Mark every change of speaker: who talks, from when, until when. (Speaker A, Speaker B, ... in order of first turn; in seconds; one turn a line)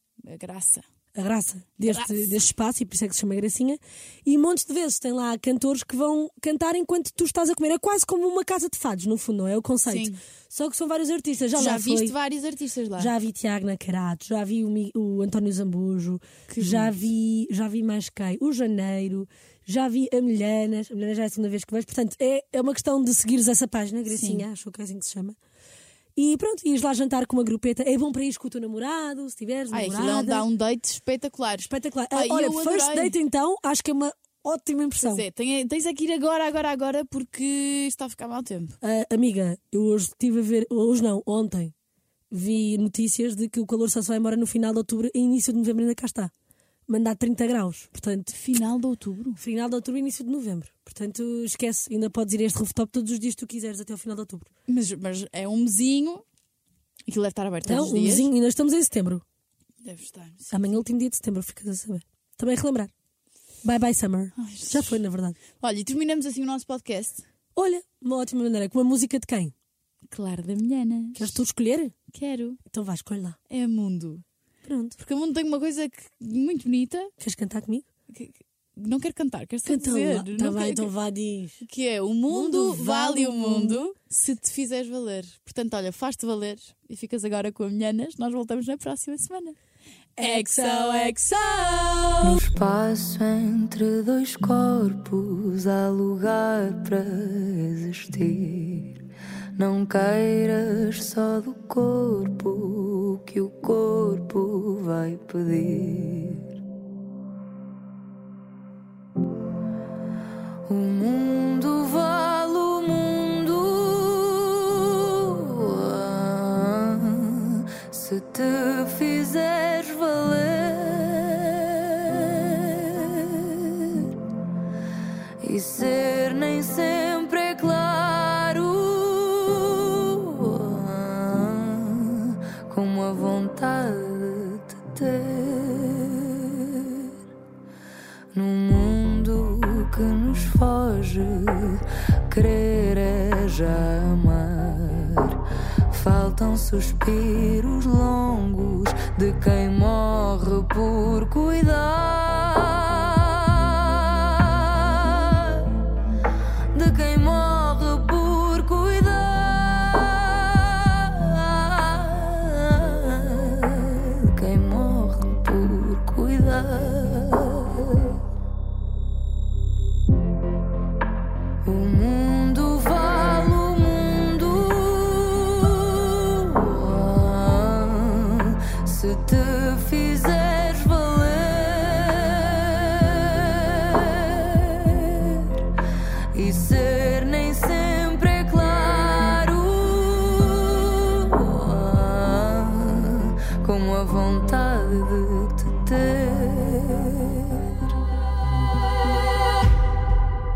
Speaker A: 0.2-0.8
Speaker B: 1.1-12.1
Speaker A: 1.8-2.4
Speaker A: 9.8-10.2
Speaker A: 11.5-13.1
Speaker B: 13.0-25.4
Speaker A: 16.5-16.9
Speaker A: 24.1-24.4
Speaker B: 26.1-30.5
Speaker A: 29.7-33.1
Speaker B: 31.6-35.2
Speaker A: 35.0-38.8
Speaker B: 38.8-41.7
Speaker B: 42.3-46.3
Speaker B: 46.9-48.3
Speaker A: 48.3-49.4
Speaker B: 49.4-54.5
Speaker A: 54.7-56.2
Speaker A: 57.1-58.3
Speaker B: 57.6-59.2
Speaker A: 59.8-60.8
Speaker B: 60.5-62.9
Speaker B: 63.6-65.4
Speaker A: 64.3-65.0
Speaker A: 65.6-67.2
Speaker B: 67.5-69.5
Speaker A: 70.1-71.4
Speaker B: 71.2-71.9
Speaker A: 72.1-72.6
Speaker B: 72.7-73.4
Speaker A: 73.5-74.2
Speaker B: 74.7-75.0
Speaker A: 75.0-77.1
Speaker B: 77.2-77.8
Speaker A: 78.1-80.9
Speaker B: 79.6-81.6
Speaker A: 81.6-89.5
Speaker B: 82.3-83.8
Speaker B: 90.2-91.4
Speaker A: 90.2-92.4
Speaker C: 92.2-99.0
Speaker C: 99.6-106.5
Speaker C: 110.7-124.4
Speaker C: 125.4-137.1
Speaker C: 138.3-155.9
Speaker C: 156.7-168.2
Speaker C: 171.6-185.7
Speaker C: 186.3-198.0
Speaker C: 198.7-199.9